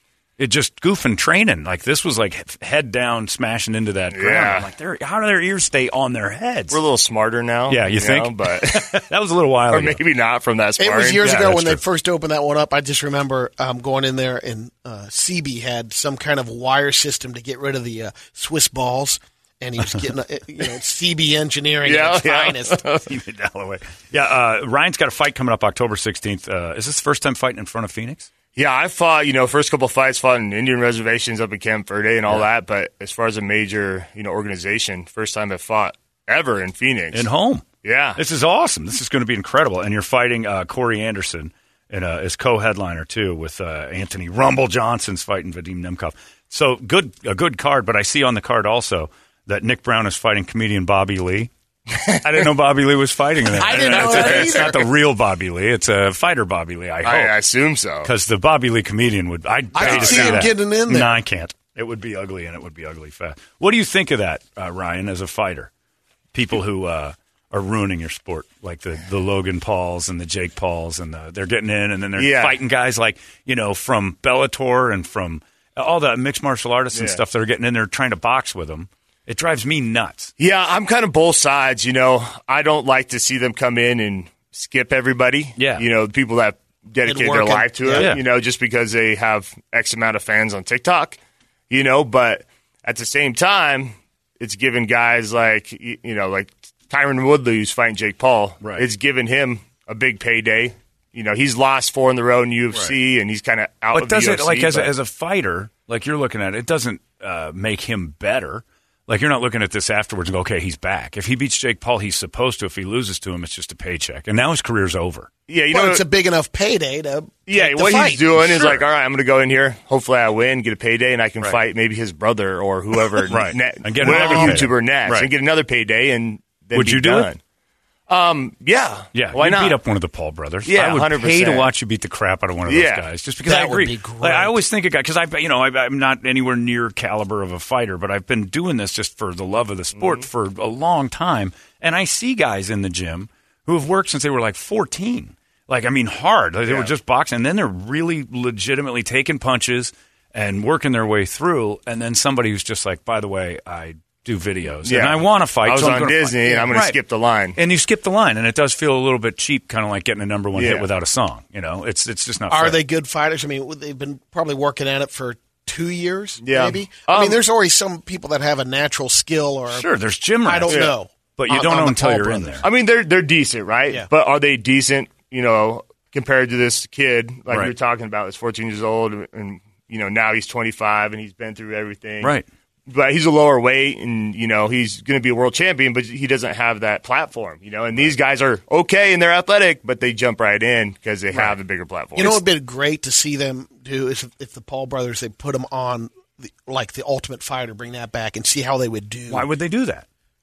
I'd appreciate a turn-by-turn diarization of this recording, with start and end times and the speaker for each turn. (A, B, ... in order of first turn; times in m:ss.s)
0:00.4-0:06.8 A
0:04.1-0:04.7 B
0:06.7-0:09.0 B
0:07.7-0:10.0 A
0:09.7-0:11.4 B
0:10.8-0:22.8 C
0:11.2-0:11.8 A
0:21.8-0:23.0 B
0:23.0-0:28.3 A
0:28.6-0:37.3 B
0:37.1-0:37.6 A
0:37.8-0:38.2 B
0:38.2-0:51.5 A
0:51.9-0:52.5 B
0:52.2-0:57.4 A
0:53.5-0:54.8 C
0:53.6-0:54.8 B
0:57.0-0:58.1 B
0:58.0-1:05.7 A
0:59.7-1:01.2 C
0:59.8-1:00.5 B
1:06.3-1:20.3 A
1:12.2-1:12.6 B
1:16.9-1:17.2 B
1:20.4-1:31.2 B
1:25.6-1:25.8 A
1:27.0-1:28.2 C
1:27.9-1:28.2 A
1:31.7-1:44.9 B
1:43.9-1:55.3 A
1:55.5-1:56.0 B
1:55.7-1:58.7 C
1:57.5-2:07.4 B
2:03.3-2:05.3 A
2:04.0-2:04.6 C
2:06.7-2:07.3 A
2:08.1-2:09.8 B
2:09.1-2:37.0 A
2:10.7-2:11.7 B
2:12.7-2:13.1 B
2:13.4-2:14.6 C
2:20.0-2:20.3 B
2:26.7-2:26.9 B
2:34.8-2:37.6 B
2:37.6-2:42.8 A
2:40.6-2:40.9 B
2:42.5-2:49.9 C
2:46.4-2:47.4 B
2:49.7-2:50.9 A
2:50.4-2:52.7 C
2:50.7-2:50.9 B
2:51.4-2:52.7 A
2:52.6-3:02.3 B
3:02.9-3:12.4 B
3:12.2-3:19.5 C
3:19.3-3:20.1 A